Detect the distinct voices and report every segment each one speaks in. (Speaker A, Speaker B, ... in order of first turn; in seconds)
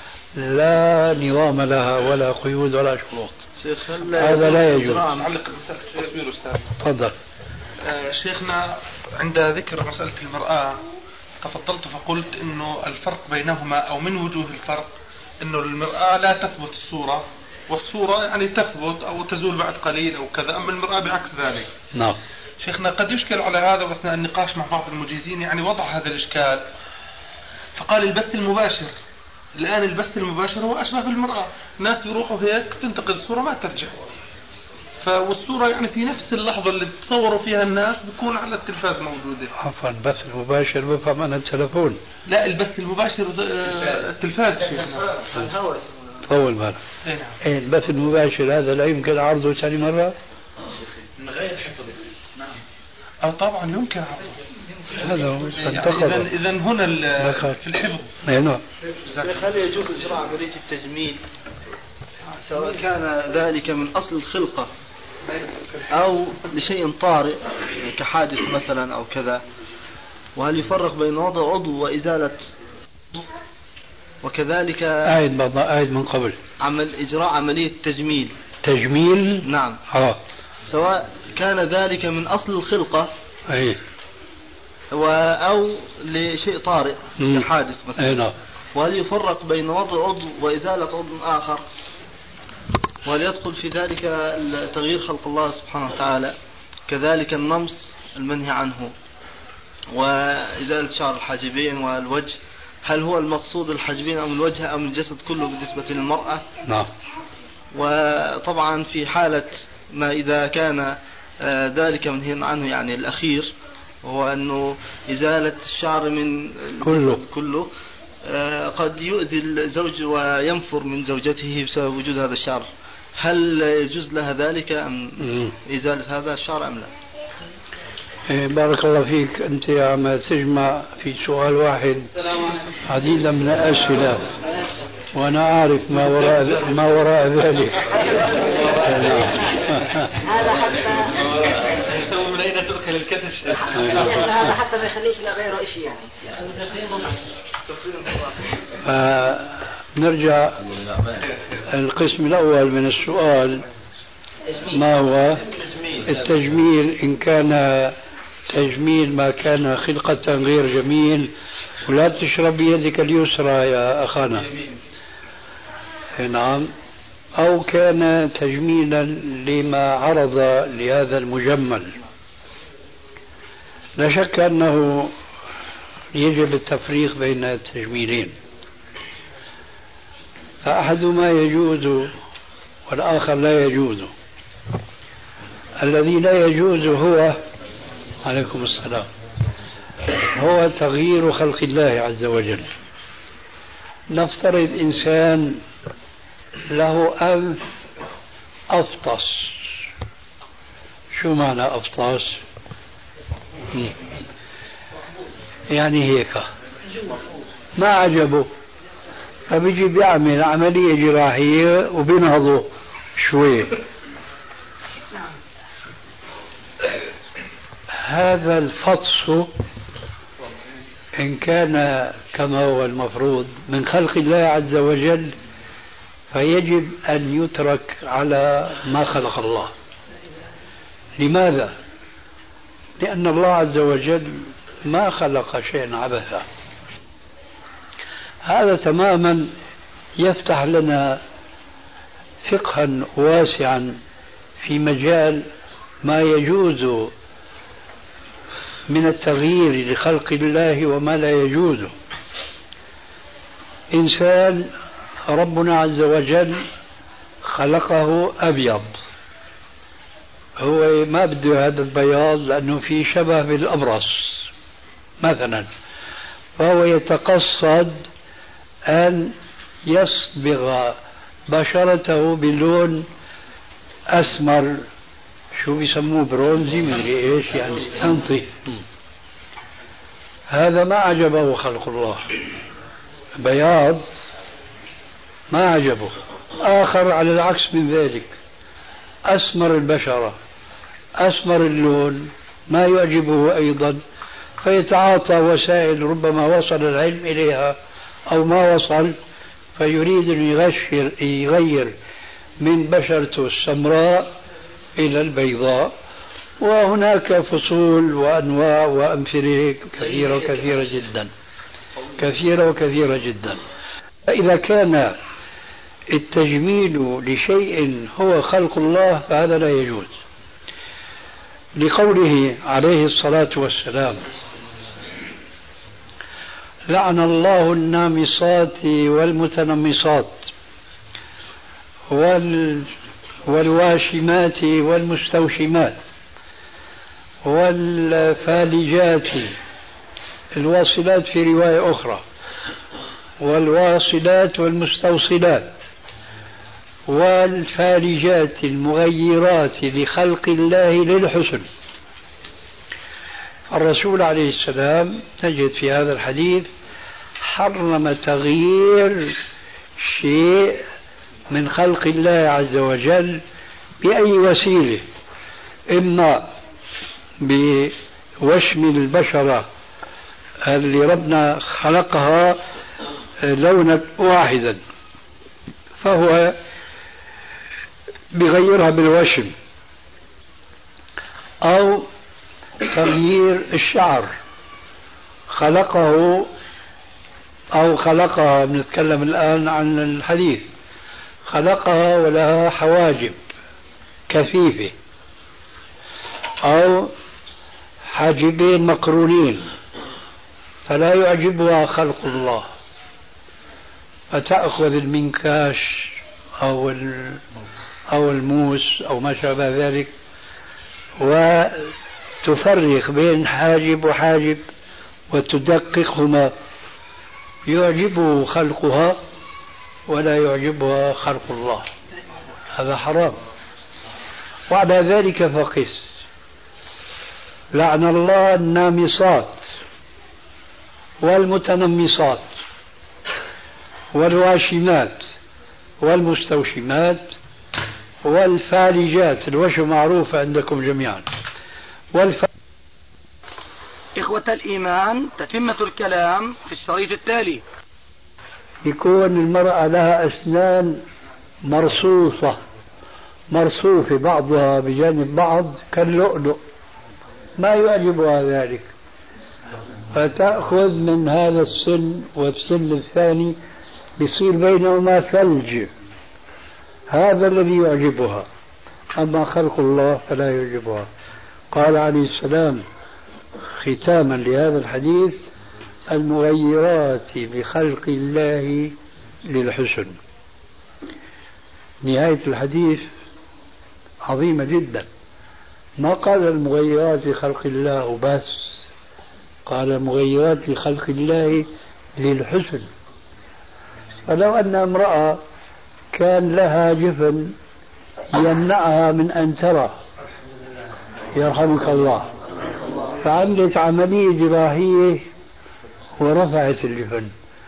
Speaker A: 0.4-3.4, 4.2-5.0, 6.8-7.2, 39.6-42.0, 46.2-46.8, 47.4-50.1, 55.0-56.3, 57.2-57.6, 58.2-58.6, 75.0-76.4, 78.6-80.2, 83.5-83.8, 87.2-87.5, 88.0-88.3, 116.8-117.2, 125.2-125.5, 128.3-132.1, 132.8-134.3, 135.1-140.1, 143.7-144.3, 148.8-150.7, 151.7-153.6, 154.7-157.9, 158.5-161.3, 161.9-164.5, 166.2-166.7, 167.4-172.0, 174.0-175.1, 176.2-178.3, 180.6-182.1, 182.9-184.1, 185.8-187.4, 188.2-189.1, 190.1-192.7, 194.1-195.6, 196.7-197.6, 198.7-199.6, 201.2-202.4, 205.7-206.5, 207.8-208.5, 209.5-213.8, 218.0-219.5, 221.2-225.3, 226.3-229.7, 231.2-231.7, 233.0-236.5, 238.4-239.5, 240.2-241.2, 242.4-244.0, 244.6-245.4, 246.0-247.1, 248.9-251.9, 253.9-254.7, 255.3-256.6, 257.4-259.0, 260.6-264.5, 265.2-265.7, 266.6-268.1, 268.9-269.4, 269.9-271.0, 271.5-273.1, 274.1-274.9, 275.6-278.8, 280.5-282.3, 283.4-284.1, 285.5-288.3, 289.2-290.4, 291.2-294.0, 294.6-297.8, 298.3-299.1, 299.8-301.9, 302.6-304.3, 305.0-305.9, 306.6-311.3, 312.2-313.6, 314.3-315.1, 316.1-320.1, 321.8-324.2, 326.9-330.5, 332.1-332.9, 333.4-336.0, 337.4-339.6, 340.5-342.2, 343.4-345.9, 347.1-351.7, 353.7-356.7, 357.4-359.4, 360.0-360.8, 361.5-363.4, 364.0-365.0, 365.9-366.5, 367.4-369.7, 370.6-372.6, 373.4-374.8, 376.0-376.6, 378.3-379.5, 381.6-382.1, 382.8-384.3, 385.5-386.5, 387.7-390.6, 391.5-393.4, 394.3-394.9, 396.6-397.1, 398.1-399.7, 400.9-402.7, 404.3-407.4, 408.1-410.1, 411.2-414.6, 415.3-416.5, 417.7-419.2, 420.1-421.9, 422.7-423.4, 424.7-426.0, 427.7-429.6, 431.2-432.5, 434.1-435.3, 436.0-437.3, 438.2-441.3, 442.1-442.5, 448.8-451.0, 451.6-452.6, 453.5-456.6, 457.6-458.9, 460.1-463.6, 464.2-465.9, 467.1-468.5, 469.1-471.1, 471.7-472.8, 473.8-475.4, 476.1-478.9, 479.5-480.2, 482.0-483.1, 484.2-485.1, 486.0-488.8, 489.7-492.9, 494.3-495.4, 496.1-497.5, 498.3-500.0, 501.3-502.3, 503.2-505.2, 506.2-507.3
Speaker B: 3.6-5.3, 45.2-46.1, 59.1-61.2, 62.4-64.7, 65.9-69.4, 70.4-72.5, 74.2-75.2, 76.6-78.3, 79.4-79.8, 80.7-83.1, 84.9-88.2, 88.8-91.7, 93.0-96.4, 96.9-98.9, 99.9-106.5, 107.7-117.7, 118.2-122.7, 123.2-126.9
Speaker C: 4.5-6.8, 7.8-10.8, 11.4-21.7, 22.6-26.7, 27.8-28.9, 29.6-34.2, 35.0-39.5, 42.3-45.2, 47.0-47.4, 51.2-51.9, 53.2-54.9, 55.5-58.1, 141.1-144.2
Speaker D: 144.4-147.2
Speaker E: 444.2-447.6